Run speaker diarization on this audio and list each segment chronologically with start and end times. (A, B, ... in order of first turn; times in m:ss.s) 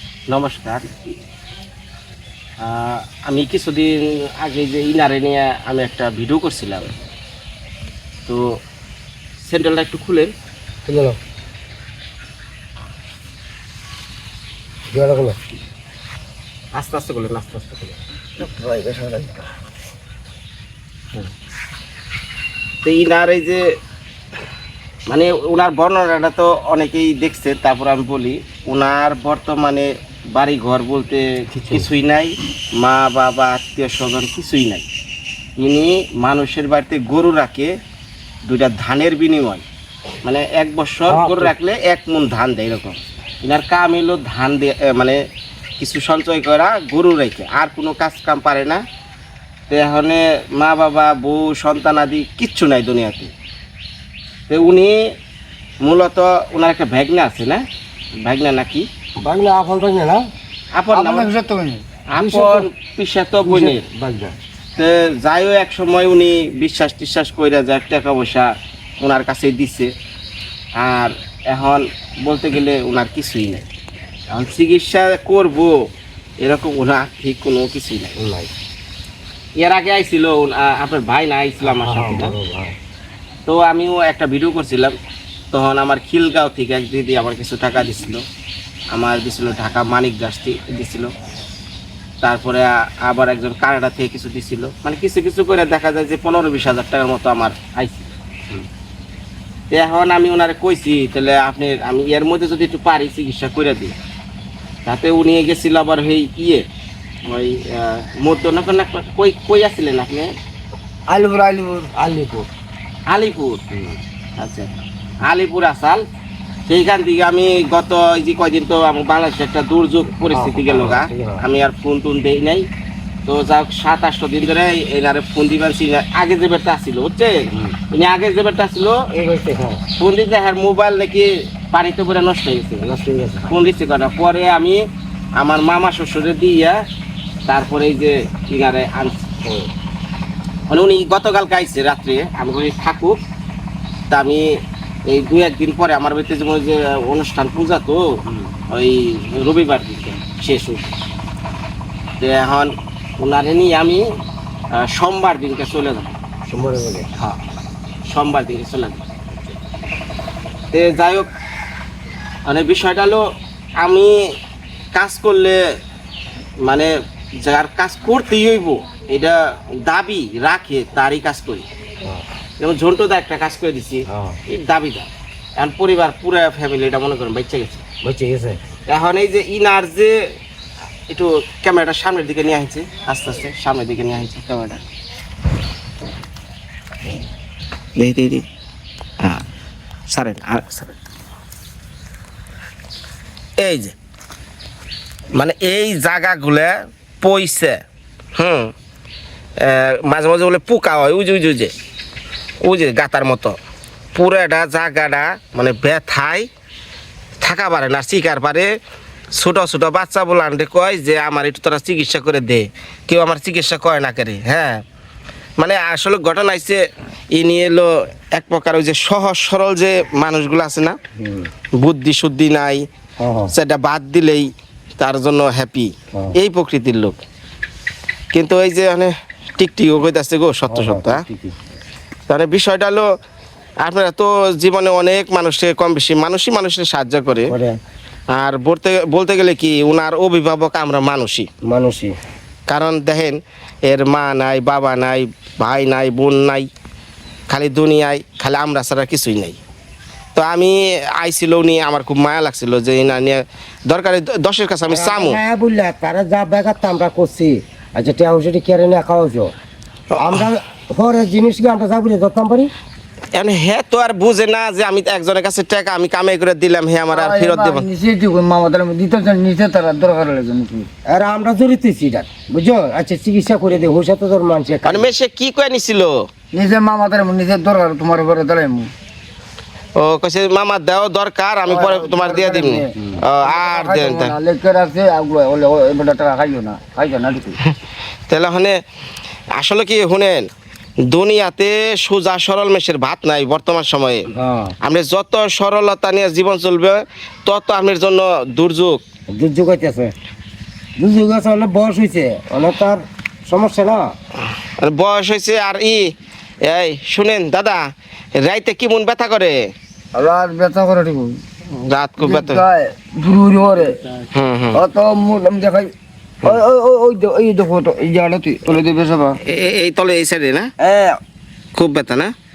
0:00.3-0:00.8 A
0:02.6-0:06.9 A
0:09.4-0:10.3 A
0:10.8-0:11.2 B
0:14.9-0:15.4 B
0:16.7-0:18.0 A
0:18.4-0:19.4 C
0:22.8-0:23.6 A
0:25.1-0:34.8 A
0:31.6-0:31.9 B
0:35.6-0:37.7 A
0:38.4-0:39.6 A
0:40.2-0:45.2 A
0:41.1-0:41.5 B
0:45.8-0:48.8 A
0:49.7-0:53.3 A
0:54.5-0:55.0 A
0:55.8-0:57.6 A
0:58.2-0:58.9 A
0:59.2-1:00.2 B
1:00.7-1:01.3 A
1:00.9-1:01.8 C
1:02.1-1:03.8 A
1:02.2-1:02.7 B
1:03.4-1:04.4 B
1:04.8-1:09.9 A
1:10.8-1:13.6 A
1:14.3-1:15.7 A
1:16.4-1:18.2 A
1:18.2-1:18.5 B
1:19.6-1:22.4 A
1:21.6-1:22.7 B
1:23.5-1:24.9 A
1:25.5-1:28.2 A
1:28.9-1:31.1 A
1:32.2-1:38.1 A
1:39.7-1:44.0 A
1:44.9-1:46.6 A
1:47.2-1:50.3 A
1:51.1-1:51.9 C
1:52.0-1:52.5 B
1:53.1-1:53.6 A
1:53.7-1:54.0 B
1:54.4-1:54.7 A
1:55.2-1:56.0 A
1:56.7-2:02.7 A
2:00.3-2:01.4 B
2:03.3-2:09.0 A
2:09.1-2:09.8 B
2:10.0-2:12.9 A
2:12.8-2:13.6 B
2:13.5-2:14.8 A
2:15.4-2:16.8 A
2:17.5-2:19.3 A
2:20.7-2:23.2 A
2:24.1-2:24.4 A
2:25.1-2:28.0 A
2:28.3-2:28.5 B
2:28.7-2:30.9 A
2:32.2-2:34.0 A
2:34.7-2:36.2 A
2:36.5-2:37.1 B
2:38.1-2:39.0 A
2:40.7-2:41.3 A
2:42.4-2:43.2 A
2:43.8-2:44.2 A
2:44.9-2:45.6 A
2:46.6-2:51.6 A
2:52.6-2:57.8 A
2:54.1-2:54.4 B
2:58.0-2:58.6 B
2:58.9-3:00.2 A
3:01.1-3:04.8 A
3:08.0-3:08.4 A
3:10.1-3:10.9 A
3:13.6-3:13.9 A
3:15.3-3:17.8 A
3:18.4-3:18.7 A
3:19.6-3:21.7 A
3:22.6-3:23.6 A
3:24.2-3:26.5 A
3:27.4-3:28.7 A
3:29.4-3:34.8 A
3:35.6-3:36.8 A
3:37.3-3:41.0 A
3:41.2-3:41.5 B
3:41.8-3:42.8 A
3:43.2-3:43.5 B
3:43.5-3:44.5 A
3:45.0-3:47.2 A
3:48.3-3:51.2 A
3:50.7-3:51.6 B
3:52.3-3:53.0 A
3:53.8-3:57.5 A
3:57.5-3:57.8 B
3:58.3-4:01.5 A
4:01.6-4:02.2 B
4:02.7-4:06.7 A
4:07.5-4:09.6 A
4:10.4-4:15.4 A
4:14.9-4:19.5 B
4:20.1-4:20.4 A
4:20.2-4:22.7 B
4:23.3-4:27.9 A
4:27.1-4:30.9 C
4:31.1-4:35.1 B
4:34.8-4:36.3 A
4:36.5-4:38.9 C
4:40.0-4:44.3 A
4:41.7-4:47.6 C
4:48.3-4:48.8 A
4:49.6-4:50.5 A
4:51.1-4:54.3 A
4:54.3-4:54.8 B
4:54.8-4:59.0 A
4:59.3-5:00.1 B
5:01.0-5:04.1 B
5:04.8-5:06.0 A
5:06.6-5:07.8 A
5:08.4-5:09.6 A
5:10.1-5:11.4 C
5:11.7-5:12.6 A
5:12.2-5:14.0 C
5:14.3-5:14.8 A
5:14.7-5:15.9 C
5:16.5-5:19.4 C
5:19.5-5:20.7 A
5:20.8-5:21.2 C
5:21.8-5:22.3 A